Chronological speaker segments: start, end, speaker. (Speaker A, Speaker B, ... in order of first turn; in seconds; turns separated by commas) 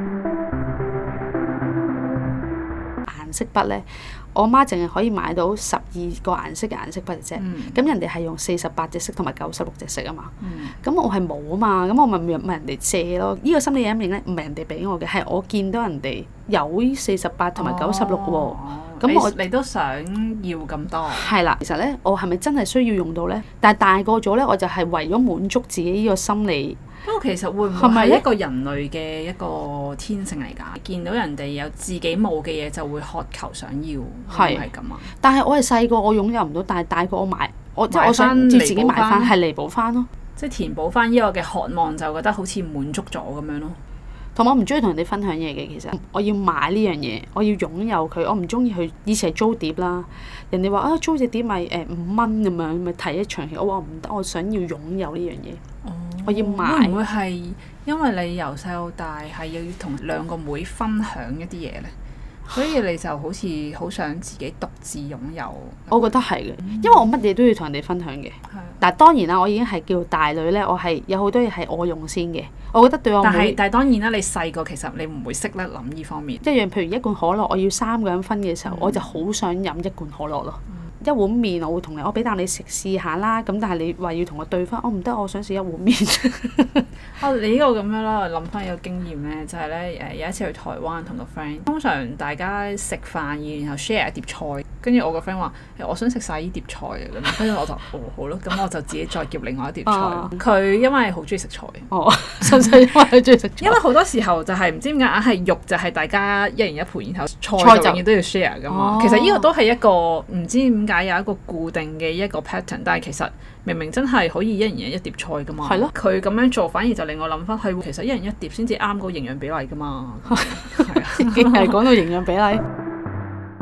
Speaker A: 3.0-19.4, Speaker B: 7.4-7.8, Speaker B: 10.4-10.8, Speaker B: 17.6-21.3, Speaker A: 21.1-26.8, Speaker B: 27.0-35.1, Speaker A: 27.7-28.2, Speaker A: 34.3-34.7, Speaker A: 35.2-40.1, Speaker B: 37.9-39.3, Speaker B: 40.4-43.8, Speaker A: 44.3-55.6, Speaker B: 55.8-61.9, Speaker A: 56.2-57.0, Speaker B: 62.5-66.1, Speaker A: 65.9-73.6, Speaker B: 66.6-67.0, Speaker B: 73.2-76.4, Speaker A: 76.4-86.8, Speaker B: 78.7-79.1, Speaker B: 87.2-101.9, Speaker A: 99.8-100.4, Speaker A: 101.9-103.8, Speaker B: 103.6-121.9, Speaker A: 107.6-108.0, Speaker A: 108.7-109.5, Speaker A: 115.7-115.9, Speaker A: 120.3-122.6